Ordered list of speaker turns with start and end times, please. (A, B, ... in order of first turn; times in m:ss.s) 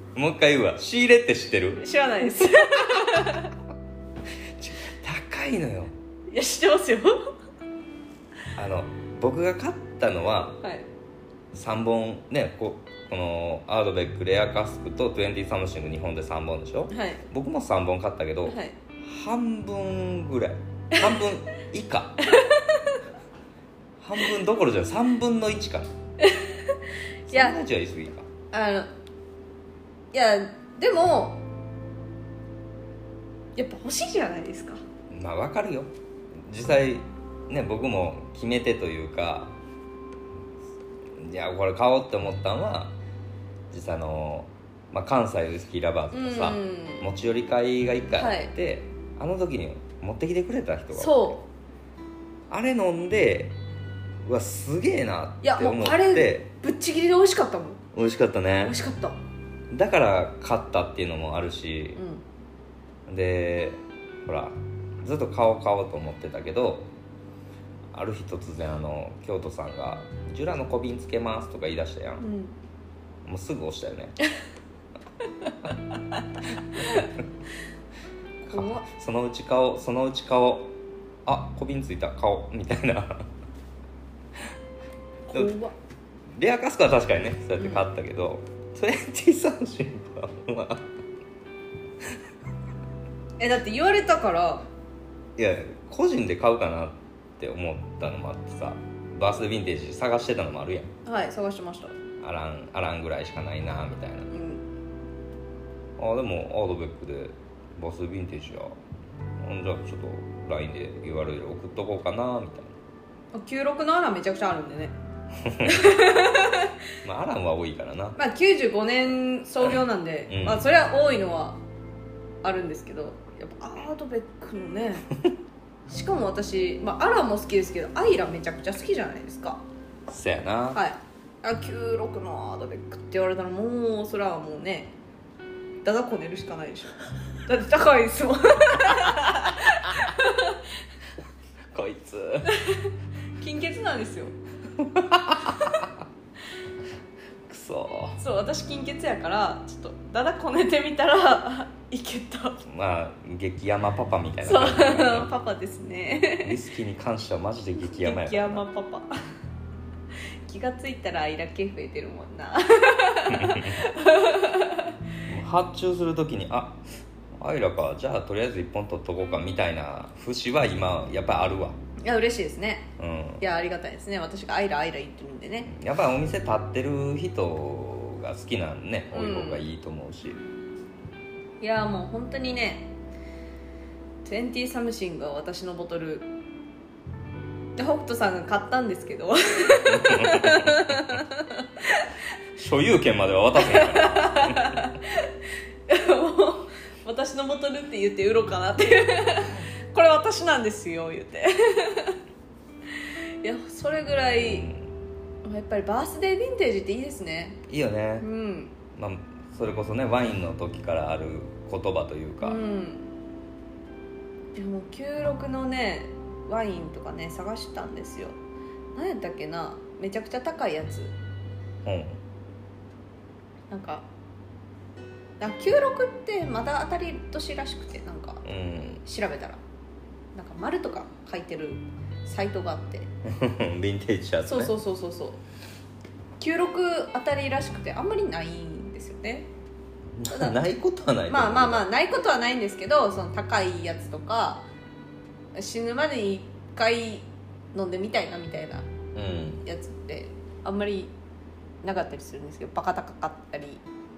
0:00.2-0:01.8 A
0:01.8-0:03.5 B
0:02.5-0:03.5 A
0:04.6-0:05.9 A
0:06.3-0:07.2 B
0:08.6-0:10.6 A
0:11.5-0:22.2 A
0:16.9-0:17.2 B
0:18.5-0:18.8 B
0:22.3-0:23.0 B
0:24.0-0:25.9 A
0:26.2-0:27.6 B
0:27.3-0:28.3 A
0:28.5-0:28.9 B
0:30.1-0:31.4 B
0:33.6-0:34.8 B
0:35.1-0:39.6 A
0:41.2-0:43.0 A
0:43.7-0:51.4 A
0:46.1-0:47.1 B
0:48.2-0:48.5 B
0:50.9-0:51.4 B
0:52.5-0:53.5 A
0:54.2-0:56.5 A
0:55.4-0:57.8 B
0:57.9-0:58.8 A
0:58.6-0:59.2 B
0:59.7-1:02.0 A
1:02.0-1:02.2 B
1:03.1-1:06.9 A
1:07.9-1:12.3 A
1:12.2-1:12.6 B
1:13.2-1:14.2 A
1:16.8-1:17.1 A
1:18.4-1:20.7 A
1:18.5-1:18.9 B
1:21.3-1:23.3 A
1:25.3-1:25.8 B
1:26.3-1:30.8 A
1:33.4-1:34.7 B
1:35.4-1:40.9 A
1:41.1-1:42.0 B
1:42.2-1:44.3 A
1:44.3-1:44.6 B
1:46.0-1:48.8 A
1:49.4-1:52.8 A
1:53.3-1:55.0 B
1:55.4-1:55.8 A
1:55.6-1:56.7 B
1:57.0-1:58.2 A
1:58.2-2:01.6 B
2:00.3-2:00.6 A
2:02.4-2:05.1 B
2:05.9-2:09.6 B
2:10.1-2:10.8 A
2:10.7-2:14.9 B
2:15.8-2:17.0 B
2:17.5-2:20.6 B
2:21.7-2:22.6 A
2:22.5-2:24.3 B
2:24.8-2:25.9 A
2:27.5-2:28.2 A
2:28.2-2:32.6 B
2:32.6-2:35.3 A
2:34.4-2:36.6 B
2:36.4-2:38.6 A
2:37.8-2:39.1 B
2:40.5-2:44.9 B
2:43.3-2:43.8 A
2:45.3-2:46.8 A
2:47.4-2:51.8 A
2:52.0-2:55.7 B
2:53.0-2:53.4 A
2:55.7-3:00.4 A
2:59.1-2:59.6 B
3:01.6-3:02.9 B
3:04.2-3:06.3 B
3:07.8-3:12.1 B
3:09.8-3:11.2 A
3:12.6-3:14.9 A
3:13.6-3:15.3 B
3:15.9-3:22.2 B
3:23.4-3:24.7 B
3:24.4-3:24.9 A
3:25.4-3:27.6 B
3:27.7-3:28.3 A
3:28.2-3:28.8 B
3:29.0-3:32.6 A
3:32.4-3:33.1 B
3:34.6-3:38.4 B
3:39.0-3:41.1 B
3:41.8-3:42.2 A
3:43.7-3:44.1 B
3:45.4-3:48.4 B
3:48.4-3:49.0 A
3:49.0-3:49.6 B
3:50.4-3:53.1 B
3:53.2-3:54.7 A
3:54.5-3:55.4 B
3:56.4-3:59.5 B
4:00.2-4:01.8 A
4:00.3-4:00.6 B
4:01.3-4:04.7 B
4:05.6-4:08.9 B
4:09.1-4:09.6 A
4:09.6-4:11.1 B
4:11.8-4:13.8 B